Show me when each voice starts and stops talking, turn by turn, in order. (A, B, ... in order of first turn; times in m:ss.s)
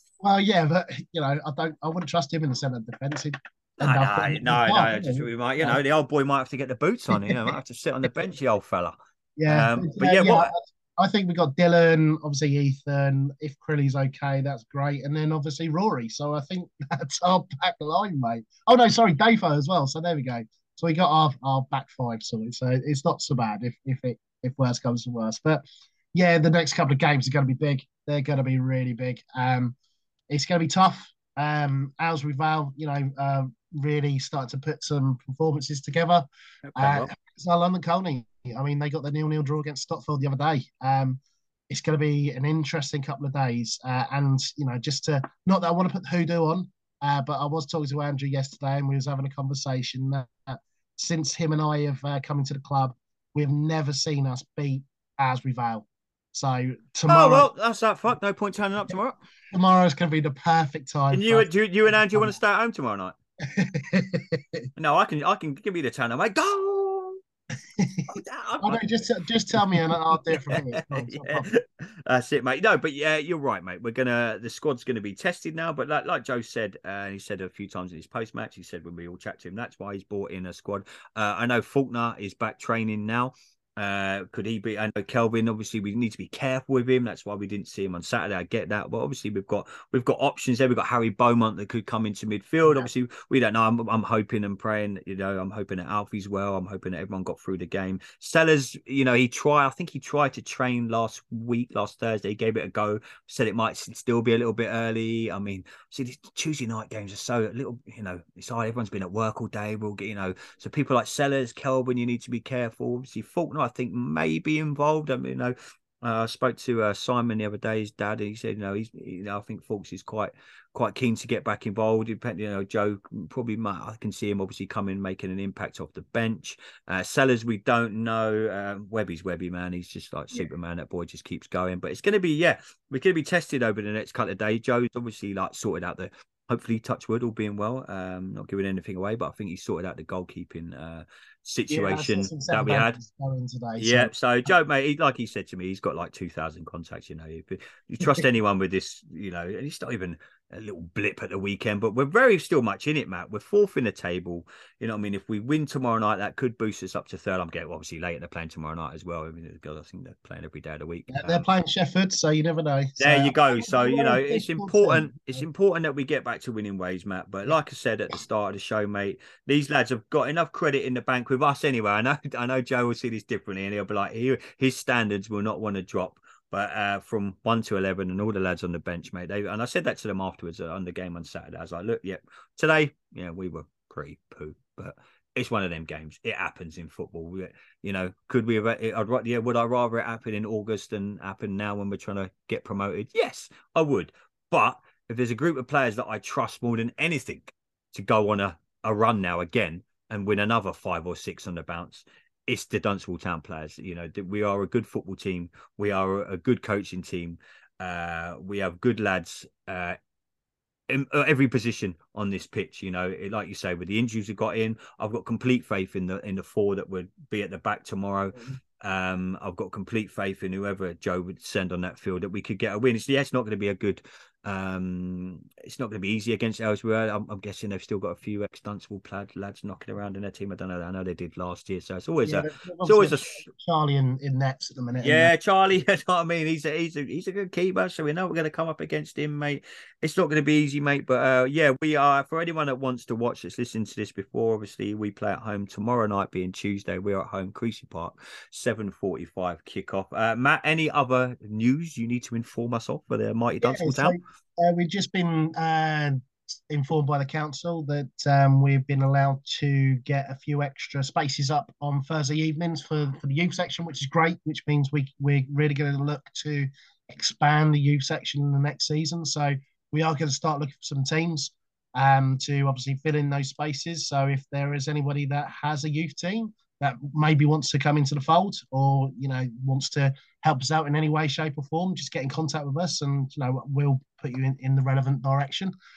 0:00.2-0:05.8 A
0:03.8-0:10.5 B
0:07.2-0:07.5 A
0:09.4-0:29.8 A
0:30.3-0:57.5 A
0:36.7-0:37.1 B
0:57.1-0:59.2 B
0:59.5-1:02.4 A
1:01.1-1:03.1 B
1:03.4-1:04.6 A
1:04.8-1:07.2 B
1:07.8-1:11.5 A
1:08.1-1:08.9 B
1:09.6-1:09.8 B
1:10.3-2:23.0 B
2:21.7-2:24.1 A
2:23.8-2:41.4 B
2:41.1-2:45.4 A
2:43.0-3:30.0 B
3:30.9-3:53.4 B
3:52.2-3:55.3 A
3:55.0-4:14.2 B
4:13.6-4:45.7 A